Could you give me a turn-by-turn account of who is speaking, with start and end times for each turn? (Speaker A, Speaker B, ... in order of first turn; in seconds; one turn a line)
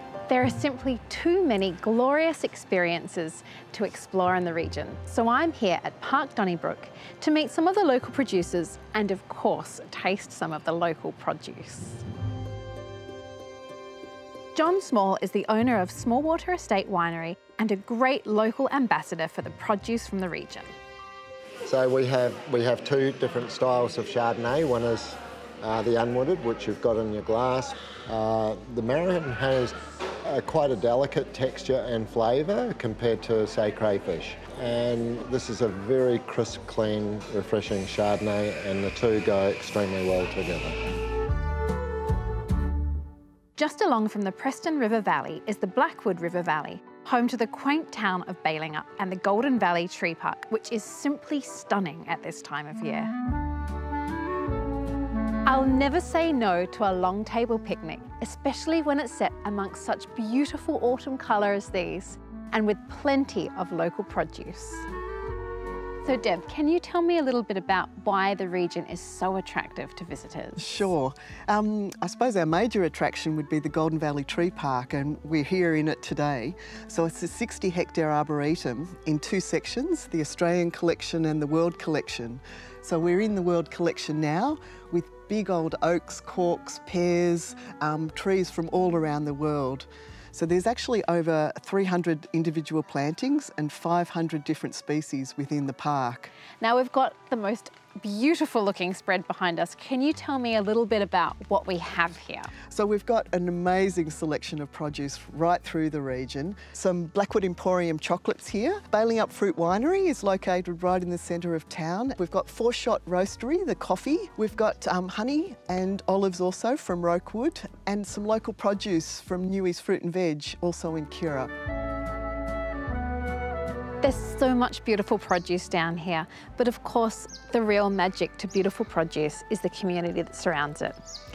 Speaker A: 0.3-12.0
Speaker A: 14.5-20.7
Speaker B: 21.6-40.8
Speaker A: 43.6-53.1
Speaker A: 55.5-64.9
Speaker A: 66.0-70.8
Speaker C: 70.6-96.3
Speaker A: 96.6-102.5
Speaker C: 102.7-121.5
Speaker A: 124.0-131.0